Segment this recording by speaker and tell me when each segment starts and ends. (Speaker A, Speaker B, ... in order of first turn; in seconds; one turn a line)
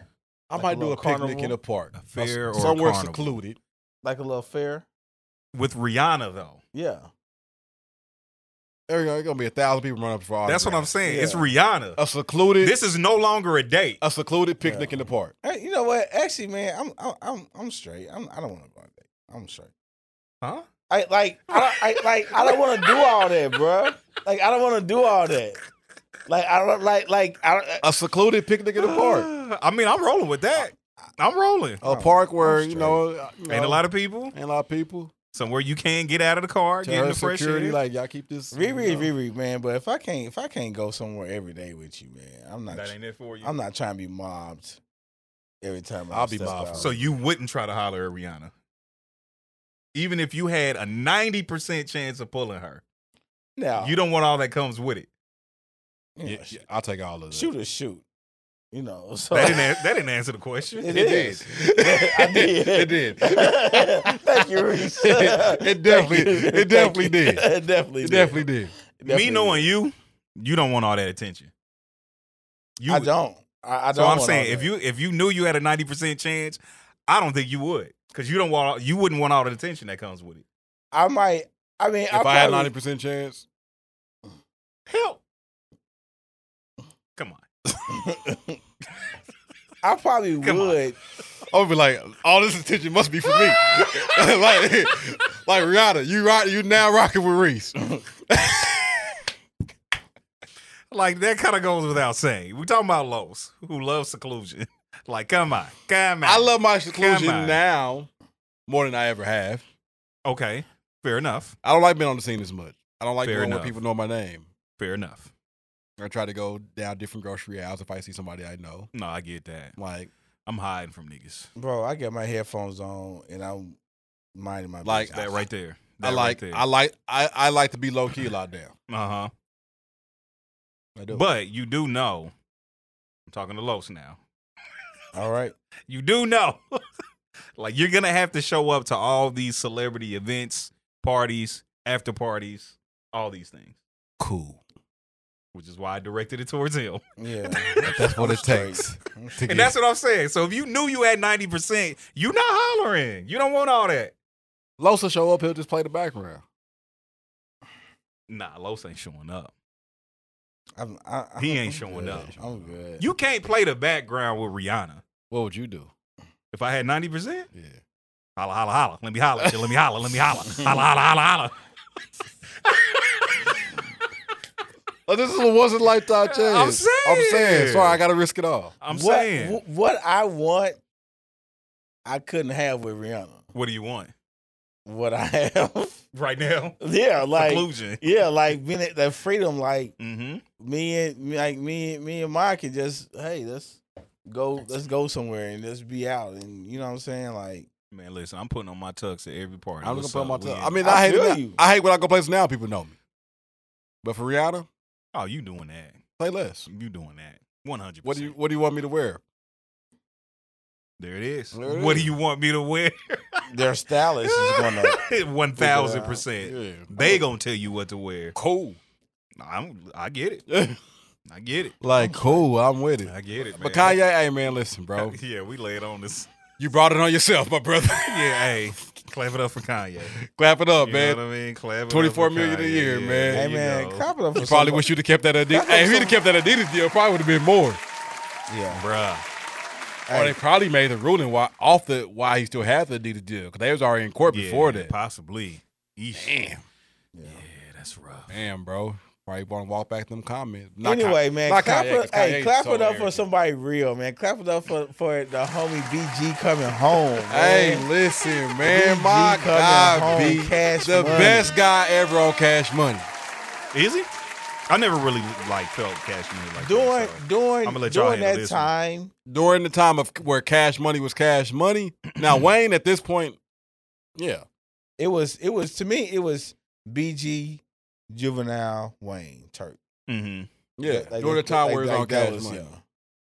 Speaker A: 0.5-3.6
Speaker B: 0.5-1.6
Speaker C: 1.9-3.4
Speaker B: 4.0-4.8
Speaker C: 5.5-6.6
Speaker B: 6.7-7.1
Speaker A: 8.9-10.9
Speaker C: 10.4-12.0
Speaker B: 11.0-11.5
Speaker A: 12.0-12.8
Speaker C: 12.6-14.0
Speaker A: 14.0-15.3
Speaker B: 14.6-19.7
Speaker C: 20.4-20.7
Speaker B: 20.9-25.6
Speaker C: 22.4-23.0
Speaker B: 26.3-27.9
Speaker A: 27.8-29.3
Speaker C: 28.8-31.8
Speaker B: 31.8-33.0
Speaker A: 31.8-35.1
Speaker C: 33.5-34.3
Speaker C: 35.3-37.8
Speaker A: 36.8-39.1
Speaker B: 38.5-44.8
Speaker C: 42.7-43.5
Speaker B: 45.6-46.9
Speaker A: 46.1-47.1
Speaker C: 46.8-48.5
Speaker C: 49.9-52.8
Speaker B: 53.6-53.9
Speaker C: 53.8-55.1
Speaker B: 56.2-56.6
Speaker A: 56.2-57.5
Speaker B: 57.3-58.0
Speaker B: 58.7-59.7
Speaker C: 59.3-61.5
Speaker B: 60.8-69.7
Speaker A: 60.9-64.2
Speaker A: 64.8-67.5
Speaker A: 68.0-68.7
Speaker C: 69.1-71.5
Speaker C: 72.8-73.1
Speaker B: 72.9-74.7
Speaker C: 73.9-80.4
Speaker B: 80.9-82.7
Speaker A: 82.1-83.5
Speaker C: 84.9-85.2
Speaker C: 87.2-87.4
Speaker B: 87.9-88.3
Speaker B: 89.8-91.0
Speaker C: 90.4-90.8
Speaker A: 91.5-98.8
Speaker C: 93.7-94.0
Speaker C: 100.9-107.6
Speaker A: 106.2-108.1
Speaker A: 108.7-109.7
Speaker C: 110.2-111.5
Speaker A: 111.6-114.5
Speaker C: 113.2-113.8
Speaker C: 114.8-115.3
Speaker A: 116.0-118.9
Speaker C: 118.9-119.8
Speaker A: 119.8-120.1
Speaker C: 120.5-121.5
Speaker B: 121.5-123.8
Speaker B: 124.3-125.4
Speaker A: 124.8-125.2
Speaker C: 125.1-126.7
Speaker A: 126.0-128.7
Speaker C: 128.9-129.3
Speaker A: 130.9-131.2
Speaker C: 131.1-132.3
Speaker C: 133.3-134.2
Speaker B: 135.1-135.5
Speaker C: 135.9-136.8
Speaker C: 137.6-143.8
Speaker A: 144.2-144.6
Speaker C: 145.5-148.3
Speaker B: 147.2-149.4
Speaker A: 147.8-149.7
Speaker C: 149.4-154.1
Speaker A: 154.8-156.4
Speaker C: 158.3-159.5
Speaker B: 160.8-163.1
Speaker C: 161.4-162.3
Speaker A: 161.9-162.8
Speaker C: 163.0-165.0
Speaker A: 165.3-165.9
Speaker C: 166.5-167.5
Speaker A: 167.5-167.8
Speaker C: 168.4-171.5
Speaker C: 172.6-173.6
Speaker A: 175.1-178.7
Speaker C: 176.2-178.0
Speaker C: 178.8-179.6
Speaker B: 178.9-180.8
Speaker B: 182.0-183.4
Speaker C: 183.5-184.1
Speaker B: 184.8-186.0
Speaker C: 186.1-186.8
Speaker B: 186.8-189.9
Speaker C: 187.3-188.0
Speaker C: 190.0-190.4
Speaker B: 190.6-197.7
Speaker C: 197.9-200.8
Speaker A: 199.8-202.9
Speaker B: 200.8-201.6
Speaker A: 204.0-204.7
Speaker C: 205.1-206.0
Speaker A: 206.2-206.7
Speaker C: 206.7-208.3
Speaker A: 208.0-209.2
Speaker C: 211.0-213.4
Speaker A: 211.5-212.1
Speaker B: 213.5-215.0
Speaker C: 214.2-218.4
Speaker B: 215.6-216.2
Speaker A: 216.4-217.2
Speaker A: 218.3-218.8
Speaker C: 219.4-220.4
Speaker A: 220.5-220.8
Speaker C: 221.3-221.8
Speaker A: 221.8-225.2
Speaker B: 221.9-222.5
Speaker C: 223.0-224.0
Speaker C: 224.9-226.3
Speaker A: 226.6-228.4
Speaker C: 227.9-230.2
Speaker A: 230.1-231.2
Speaker C: 230.8-234.1
Speaker A: 231.9-233.4
Speaker B: 233.3-234.9
Speaker A: 234.3-237.8
Speaker B: 235.5-236.2
Speaker B: 238.5-238.8
Speaker C: 238.7-239.2
Speaker B: 240.1-240.4
Speaker A: 240.1-244.9
Speaker C: 244.3-246.4
Speaker A: 246.1-246.6
Speaker B: 247.1-247.4
Speaker C: 247.2-248.4
Speaker A: 248.3-253.2
Speaker B: 250.8-257.9
Speaker A: 257.3-263.1
Speaker B: 258.6-261.5
Speaker C: 263.7-264.1
Speaker C: 264.7-268.7
Speaker B: 266.6-269.1
Speaker A: 269.2-273.4
Speaker C: 272.1-272.5
Speaker A: 274.1-274.4
Speaker B: 275.0-279.8
Speaker C: 280.1-280.5
Speaker A: 280.8-282.7
Speaker B: 280.8-282.8